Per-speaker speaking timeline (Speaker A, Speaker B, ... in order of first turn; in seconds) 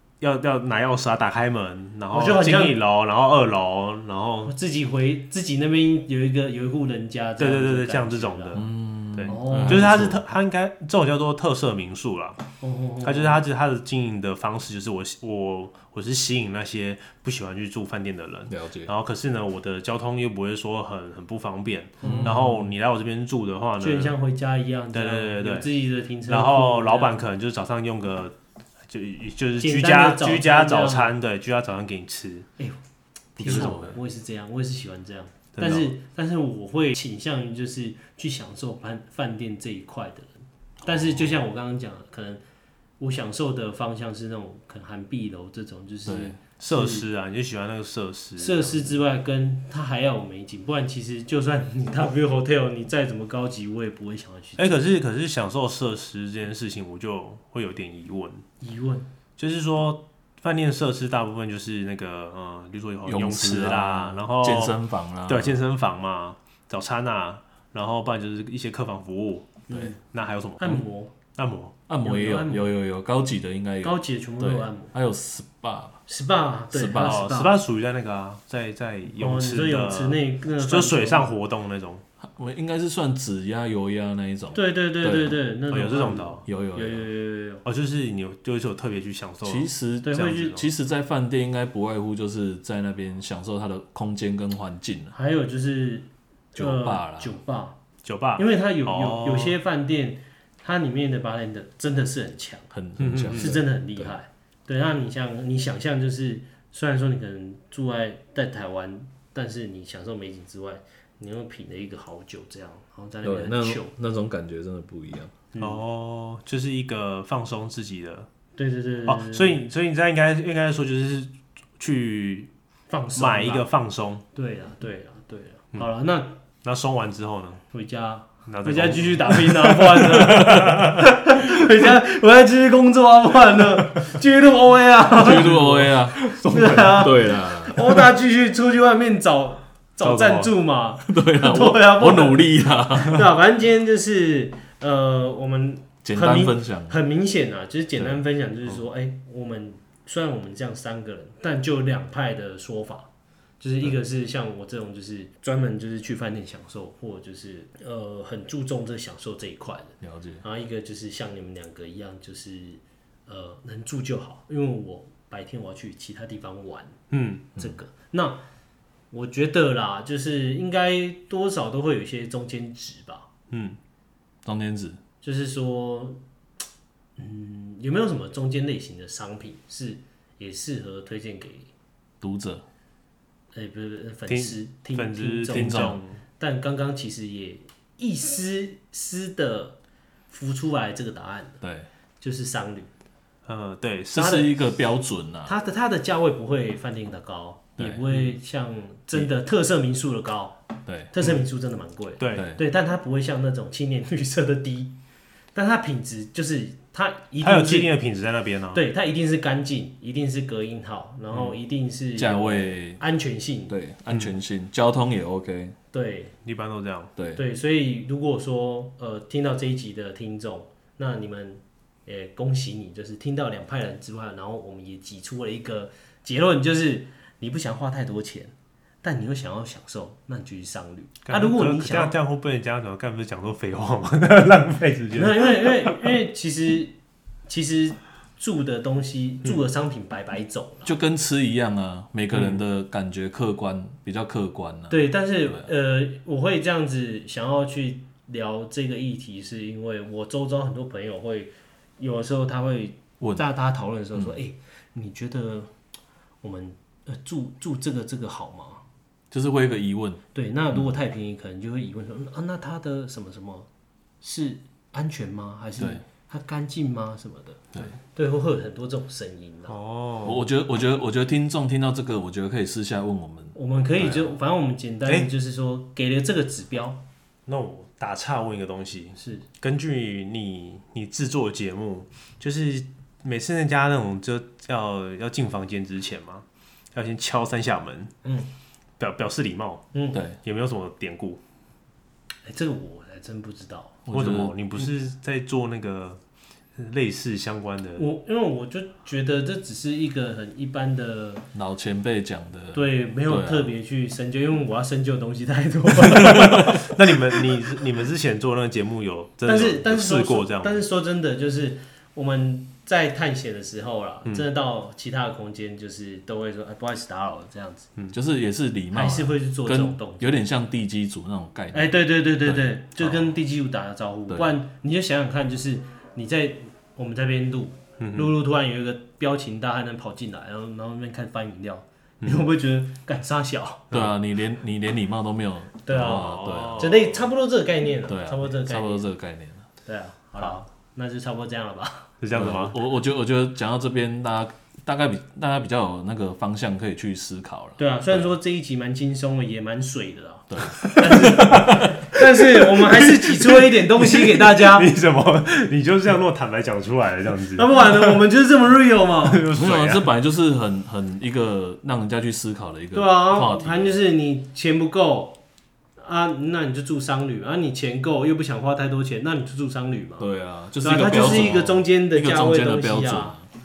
Speaker A: 0.2-4.5, 7.4-12.4, 13.0-24.2, 24.9-25.7, 26.3-28.4, 28.9-32.5, 33.4-34.0, 35.6-35.9, 46.6-49.0, 54.6-58.5, 59.4-70.8, 71.3-71.8, 77.0-82.0, 85.7-86.4, 87.6-90.7, 98.0-99.6, 103.0-103.6, 115.6-118.3, 119.1-122.5, 123.2-124.2, 126.6-127.6, 128.5-131.0, 135.2-137.3, 140.0-140.5, 167.1-167.5, 173.5-173.8, 184.3-186.2, 193.5-194.3, 202.2-202.5, 207.4-208.8, 211.3-211.6, 214.1-214.4, 216.4-217.1, 231.3-236.1, 242.3-242.6, 269.7-270.4, 277.5-288.1, 289.0-289.9, 290.4-291.4, 294.1-296.2, 296.8-298.1, 306.1-310.8, 328.0-328.3, 335.9-337.2, 342.2-342.8, 351.1-358.2, 359.2-360.1
Speaker B: 2.1-2.8, 4.5-8.6, 9.3-10.1, 12.6-13.4, 22.0-22.6, 23.8-27.2, 29.6-31.1, 33.4-40.3, 40.9-42.4, 43.0-47.1, 48.4-54.7, 58.6-59.1, 69.7-70.0, 70.6-71.2, 72.0-72.7, 73.8-74.9, 76.1-77.6, 79.2-81.3, 84.5-87.6, 90.1-90.6, 95.1-97.8, 98.4-102.7, 103.3-113.9, 115.5-115.8, 118.6-119.6, 122.9-123.7, 124.3-126.4, 127.7-135.5, 136.5-153.1, 153.6-167.0, 167.6-168.4, 169.1-173.3, 175.2-176.2, 177.2-181.7, 183.5-189.8, 190.3-191.6, 192.2-192.9, 194.2-194.5, 195.5-204.9, 205.6-207.9, 208.7-213.8, 215.9-216.4, 217.4-232.2, 235.1-240.9, 244.9-255.7, 256.4-258.8, 260.3-263.7, 264.2-269.8, 273.6-277.0, 279.2-279.5, 288.2-288.5, 289.9-290.2, 292.4-294.0, 298.0-301.5, 302.7-306.9, 309.4-317.9, 318.9-320.4, 321.7-333.9, 335.9-339.1, 339.9-342.2, 347.8-354.9, 357.6-359.5, 362.9-365.4, 366.0-370.3, 370.8-373.4
Speaker C: 8.6-10.2, 18.5-18.9, 22.0-22.7, 33.4-34.0, 40.9-41.4, 46.1-46.4, 63.1-65.6, 71.9-76.0, 76.7-77.3, 82.2-85.4, 86.5-87.1, 89.4-95.1, 96.5-97.3, 102.7-104.2, 113.2-115.3, 130.3-130.8, 135.2-137.8, 141.1-143.2, 146.0-147.0, 148.0-148.2, 160.0-160.4, 174.4-175.0, 182.2-182.6, 185.5-186.0, 191.6-191.9, 194.1-195.5, 197.8-198.2, 200.9-201.1, 202.3-202.6, 212.2-213.0, 213.7-215.8, 217.2-217.4, 240.8-245.7, 259.3-260.2, 270.2-274.3, 294.1-294.6, 301.5-303.7, 306.2-306.6, 318.1-323.2, 333.9-336.9, 338.1-339.6, 342.4-348.3, 350.5-352.0, 359.6-364.0, 370.2-373.5